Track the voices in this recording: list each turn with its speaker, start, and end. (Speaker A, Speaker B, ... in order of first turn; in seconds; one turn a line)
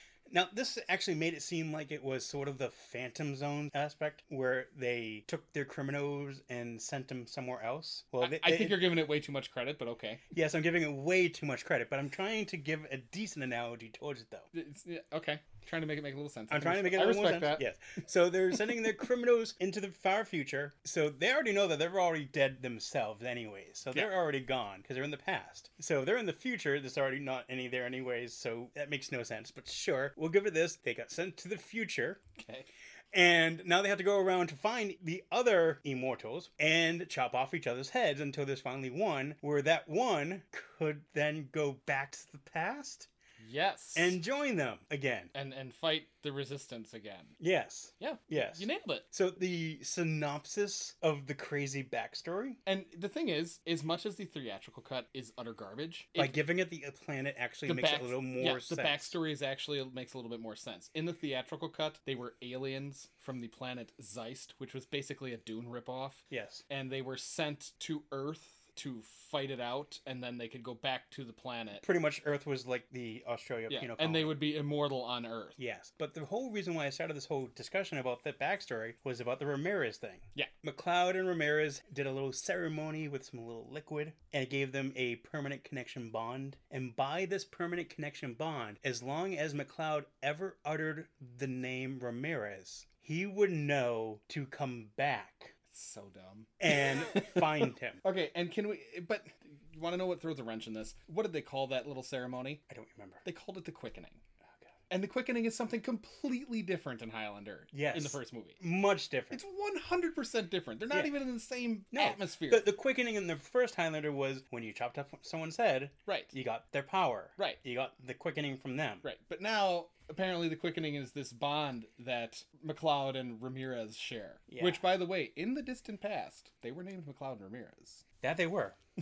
Speaker A: 0.3-8.9
Speaker B: 8.2-10.2
Speaker A: 10.3-14.5
Speaker B: 14.5-17.7
Speaker A: 16.5-32.2
Speaker B: 32.4-32.7
Speaker A: 33.1-43.1
Speaker B: 43.4-44.2
Speaker A: 44.0-45.3
Speaker B: 45.3-47.4
Speaker A: 47.4-52.6
Speaker B: 48.0-49.1
Speaker B: 52.7-56.4
Speaker A: 56.2-59.1
Speaker B: 57.7-71.8
Speaker A: 66.3-66.6
Speaker A: 71.8-74.3
Speaker B: 73.7-75.6
Speaker A: 75.6-95.5
Speaker B: 95.7-102.6
Speaker A: 96.6-98.0
Speaker A: 102.7-103.2
Speaker B: 103.2-104.2
Speaker B: 104.9-108.6
Speaker A: 107.7-109.4
Speaker B: 109.3-112.7
Speaker A: 111.9-119.0
Speaker B: 116.1-116.3
Speaker B: 119.0-128.0
Speaker A: 124.5-124.9
Speaker A: 128.2-128.8